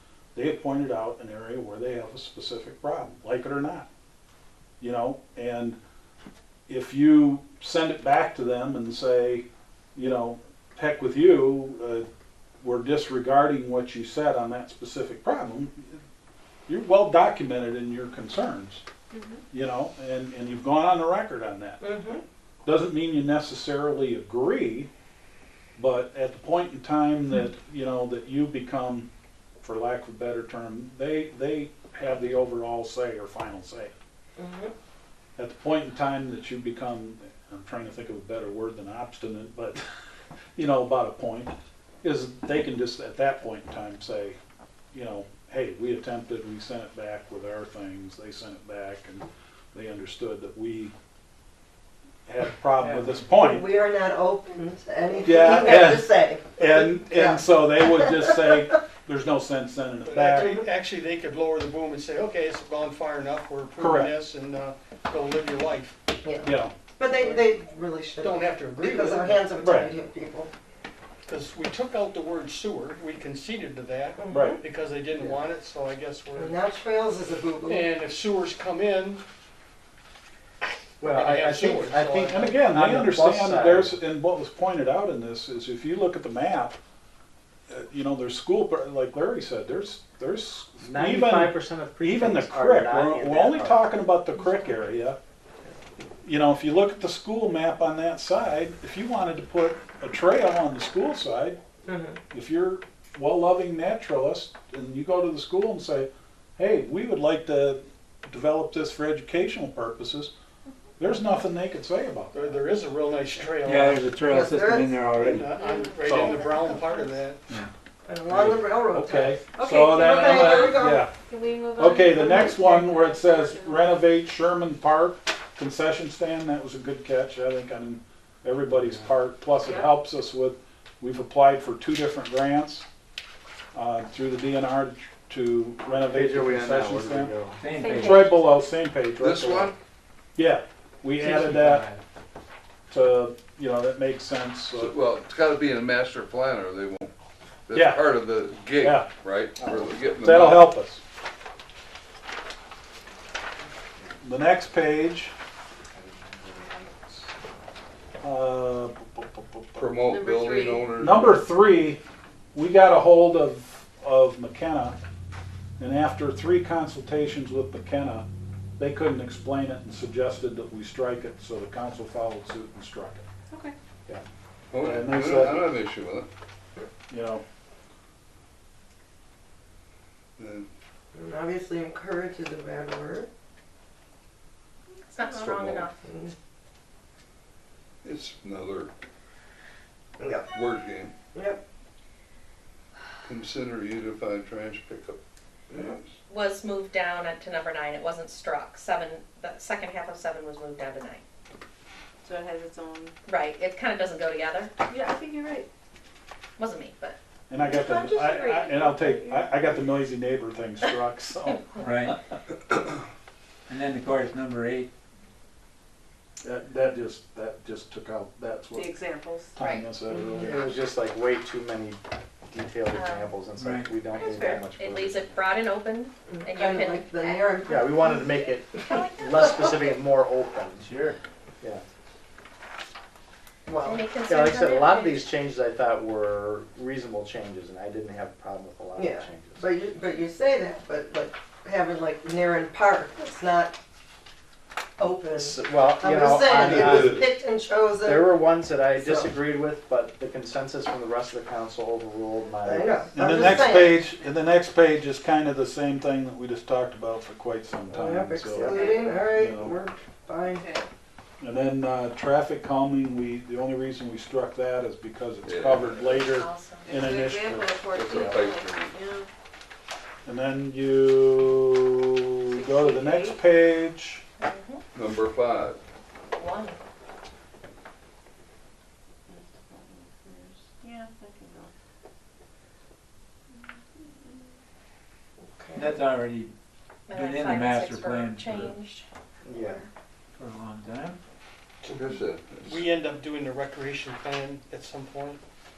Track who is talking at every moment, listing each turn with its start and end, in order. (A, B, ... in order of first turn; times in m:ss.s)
0:00.3-0:03.9 A
0:04.8-0:05.8 A
0:06.7-0:12.0 A
0:12.6-0:16.0 A
0:16.7-0:18.8 A
0:19.5-0:21.8 A
0:21.8-0:22.2 B
0:22.6-0:24.9 A
0:25.8-0:29.1 A
0:29.6-0:33.9 A
0:34.4-0:34.7 B
0:35.4-0:39.8 A
0:40.6-0:44.4 A
0:44.9-0:50.9 A
0:52.3-0:53.7 A
0:52.8-0:53.3 C
0:53.3-0:58.7 B
0:55.2-1:00.6 A
1:00.0-1:06.0 D
1:03.8-1:04.1 A
1:06.2-1:10.5 B
1:06.4-1:06.7 A
1:07.1-1:07.4 D
1:08.2-1:09.5 D
1:09.6-1:09.9 A
1:11.2-1:16.6 D
1:14.2-1:14.6 B
1:14.3-1:14.6 A
1:16.4-1:17.9 B
1:17.6-1:19.2 D
1:21.0-1:23.9 E
1:21.0-1:22.4 D
1:22.3-1:26.8 A
1:27.7-1:35.2 A
1:30.8-1:33.9 E
1:36.2-1:41.6 A
1:41.9-1:42.2 B
1:42.3-1:50.3 A
1:51.0-1:52.6 A
1:52.3-1:54.1 D
1:53.6-1:55.5 C
1:54.2-1:55.0 B
1:55.2-1:57.4 D
1:55.5-1:56.5 F
1:56.0-1:56.4 A
1:58.0-2:01.0 B
1:58.3-2:01.1 A
1:59.6-2:04.0 F
2:01.7-2:12.9 A
2:08.7-2:09.0 E
2:09.6-2:09.9 F
2:13.7-2:17.3 A
2:15.9-2:17.6 E
2:17.6-2:18.4 C
2:17.8-2:18.5 G
2:17.9-2:19.7 A
2:19.2-2:19.7 H
2:20.3-2:21.9 A
2:21.2-2:22.0 C
2:22.9-2:25.0 A
2:24.7-2:27.1 H
2:27.7-2:30.7 H
2:27.7-2:28.0 A
2:28.8-2:29.1 A
2:29.6-2:30.2 E
2:30.2-2:31.0 A
2:34.2-2:35.3 A
2:35.9-2:37.2 E
2:38.2-2:39.8 A
2:39.7-2:41.4 H
2:40.1-2:40.8 F
2:41.0-2:42.0 A
2:42.5-2:45.0 A
2:45.8-2:48.3 A
2:48.8-2:53.2 A
2:54.7-2:56.3 H
2:54.8-2:55.7 A
2:57.1-2:57.4 A
3:00.4-3:00.7 H
3:01.1-3:03.3 B
3:05.1-3:06.0 G
3:05.3-3:05.9 H
3:06.0-3:06.3 B
3:08.0-3:08.9 H
3:10.2-3:10.5 B
3:10.5-3:11.1 H
3:11.3-3:11.6 B
3:13.2-3:15.2 H
3:15.7-3:16.1 H
3:16.3-3:21.2 G
3:22.2-3:23.1 F
3:23.2-3:24.7 G
3:24.9-3:25.7 F
3:26.6-3:27.2 G
3:27.5-3:31.7 A
3:27.6-3:29.6 F
3:31.8-3:32.2 C
3:33.7-3:34.9 C
3:36.4-3:38.9 A
3:38.7-3:39.5 F
3:39.5-3:40.8 A
3:39.6-3:39.9 G
3:40.1-3:40.6 B
3:40.4-3:45.4 E
3:42.9-3:43.3 G
3:43.6-3:44.0 C
3:44.6-3:47.9 G
3:46.3-3:48.4 B
3:47.7-3:50.8 E
3:48.7-3:50.0 G
3:50.8-3:51.2 C
3:53.6-3:54.0 B
3:53.8-3:55.3 G
3:54.3-3:59.7 E
3:59.0-4:03.8 B
4:05.0-4:09.3 B
4:05.3-4:07.3 E
4:08.0-4:13.1 E
4:12.6-4:14.1 B
4:13.1-4:18.8 A
4:17.9-4:20.6 B
4:18.5-4:18.9 E
4:19.3-4:19.8 A
4:21.4-4:28.4 A
4:25.4-4:26.3 H
4:26.3-4:26.9 G
4:26.9-4:29.2 F
4:27.9-4:28.9 H
4:30.2-4:34.2 A
4:32.5-4:33.4 F
4:34.4-4:34.8 G
4:34.9-4:35.8 H
4:36.4-4:36.8 G
4:39.7-4:41.7 F
4:45.5-4:45.9 B
4:45.7-4:46.5 C
4:47.1-4:49.0 G
4:47.1-4:48.8 C
4:49.4-4:49.8 E
4:49.6-4:49.8 G
4:50.4-4:51.2 C
4:51.8-4:55.4 D
4:51.8-4:52.8 H